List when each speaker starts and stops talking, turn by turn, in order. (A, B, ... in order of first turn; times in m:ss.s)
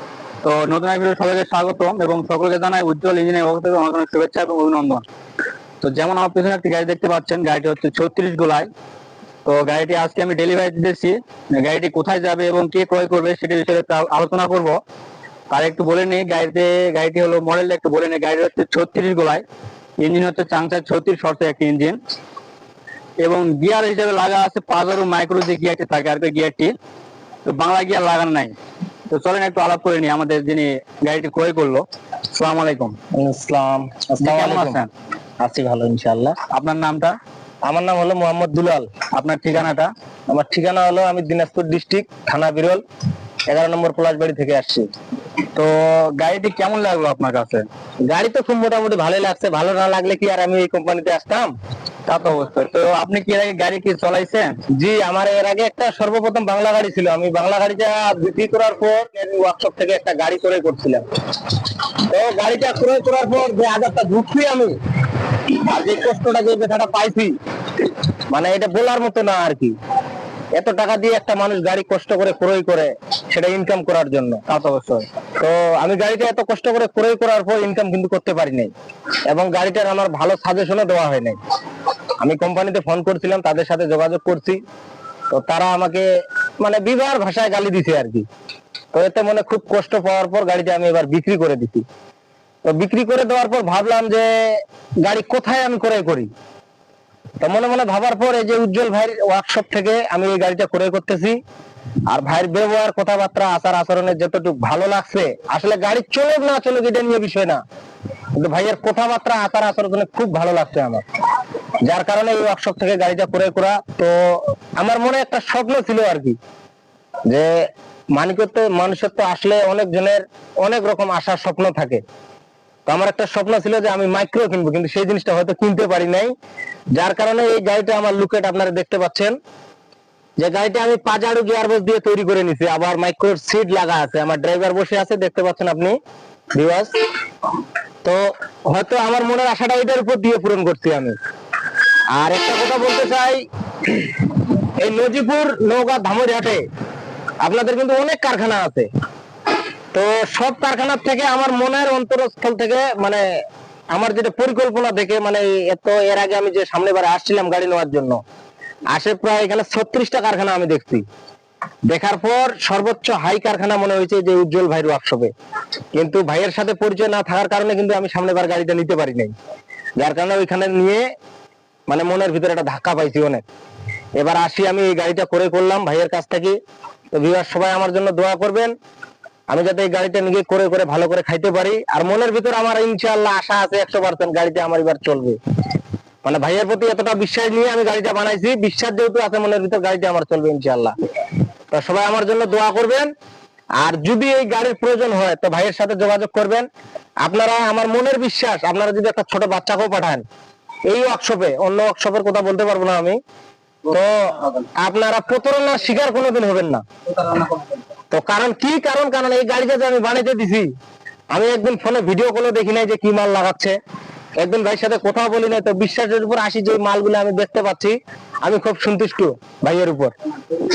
0:00.4-0:05.0 A
0:05.8-0:08.7 A
0:09.4-0:14.8 A
0:15.5-0:19.4 A
0:20.0-0:22.0 A
0:23.2-0:26.7 A
0:27.4-0:28.5 A
0:29.1-0:33.0 A
0:33.2-0:34.8 B
0:34.2-0:34.9 A
0:35.4-0:36.4 B
0:36.5-0:37.2 A
0:37.6-0:38.9 B
0:39.2-0:39.9 A
0:40.3-0:42.8 B
0:43.5-0:44.9 B
0:45.6-0:47.7 A
0:48.1-0:51.5 B
0:52.1-0:54.5 A
0:54.8-1:04.7 B
1:05.5-1:07.4 B
1:08.3-1:09.8 B
1:10.6-1:14.4 B
1:14.5-1:15.0 A
1:15.4-1:18.7 B
1:19.3-1:21.4 B
1:22.2-1:24.6 B
1:25.3-1:26.1 B
1:26.6-1:28.3 B
1:28.9-1:31.8 B
1:32.6-1:36.3 B
1:37.4-1:41.4 B
1:42.1-1:47.6 B
1:48.4-1:51.0 B
1:51.8-1:56.4 B
1:57.3-1:57.6 B
1:58.2-2:02.0 B
2:02.9-2:06.3 B
2:07.0-2:09.4 B
2:10.4-2:16.0 B
2:16.5-2:17.0 B
2:18.0-2:21.2 B
2:22.1-2:26.6 B
2:27.4-2:28.9 B
2:29.9-2:33.2 B
2:33.9-2:38.2 B
2:38.9-2:41.0 B
2:41.9-2:45.3 B
2:46.0-2:49.3 B
2:50.0-2:51.0 B
2:51.9-2:53.4 B
2:54.2-2:56.6 B
2:57.1-2:58.7 B
2:59.5-3:05.4 B
3:06.2-3:11.0 B
3:11.7-3:13.1 B
3:13.8-3:16.7 B
3:17.2-3:20.2 B
3:20.9-3:23.2 B
3:23.9-3:26.8 B
3:28.1-3:30.7 B
3:31.3-3:33.8 B
3:34.4-3:40.1 B